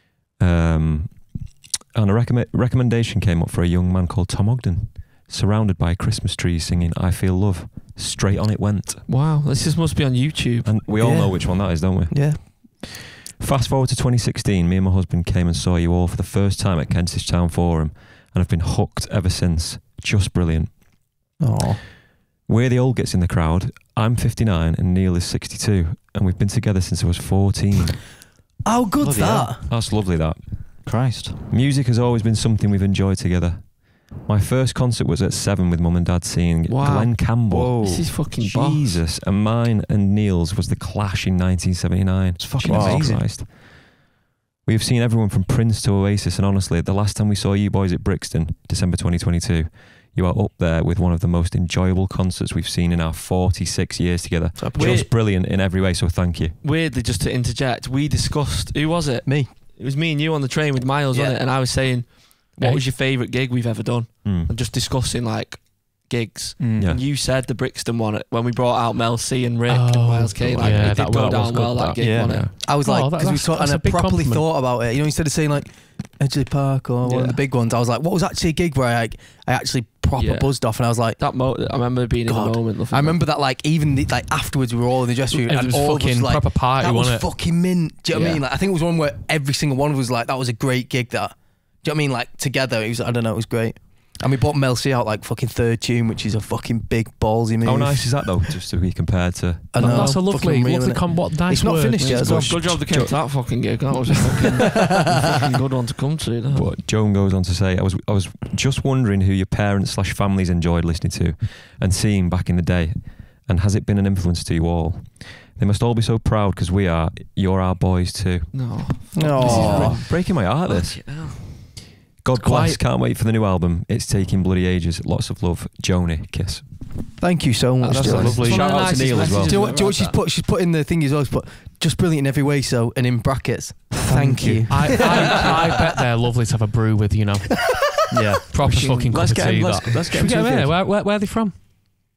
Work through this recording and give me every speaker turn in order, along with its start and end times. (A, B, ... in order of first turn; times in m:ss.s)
0:00.4-0:09.1 A
0:09.1-0:10.8 B
0:10.6-0:21.0 A
0:11.0-0:12.5 C
0:21.4-0:21.8 C
0:22.4-0:28.0 A
0:28.6-0:29.7 C
0:29.0-0:29.6 D
0:29.7-0:30.9 A
0:30.8-0:31.5 D
0:31.5-0:44.0 A
0:36.7-0:39.0 B
0:37.5-0:38.2 D
0:42.4-0:43.3 D
0:42.6-0:43.1 C
0:44.6-0:56.6 A
0:54.6-0:55.1 C
0:54.7-0:55.1 B
0:56.6-1:12.5 B
0:59.2-0:59.5 C
1:01.1-1:01.4 C
1:04.2-1:04.5 A
1:06.6-1:07.0 D
1:06.8-1:07.0 A
1:09.7-1:12.0 E
1:10.5-1:11.5 A
1:12.0-1:12.4 D
1:12.1-1:12.6 A
1:12.6-1:14.4 E
1:12.6-1:21.2 C
1:17.0-1:17.4 B
1:20.2-1:23.2 B
1:22.2-1:38.4 C
1:25.3-1:27.3 E
1:28.1-1:28.4 B
1:37.6-1:40.2 A
1:39.7-1:42.9 C
1:39.8-1:42.6 E
1:42.0-1:46.7 B
1:44.8-1:45.2 C
1:46.5-2:01.6 A
1:58.5-2:01.4 B
1:59.1-2:00.1 C
2:02.2-2:07.0 A
2:02.4-2:02.8 E
2:07.2-2:08.6 C
2:07.8-2:09.6 A
2:07.9-2:08.8 D
2:07.9-2:10.2 B
2:09.4-2:15.6 C
2:13.9-2:15.0 D
2:14.7-2:21.5 E
2:15.0-2:15.4 B
2:18.1-2:18.4 D
2:18.6-2:20.8 A
2:18.7-2:19.0 B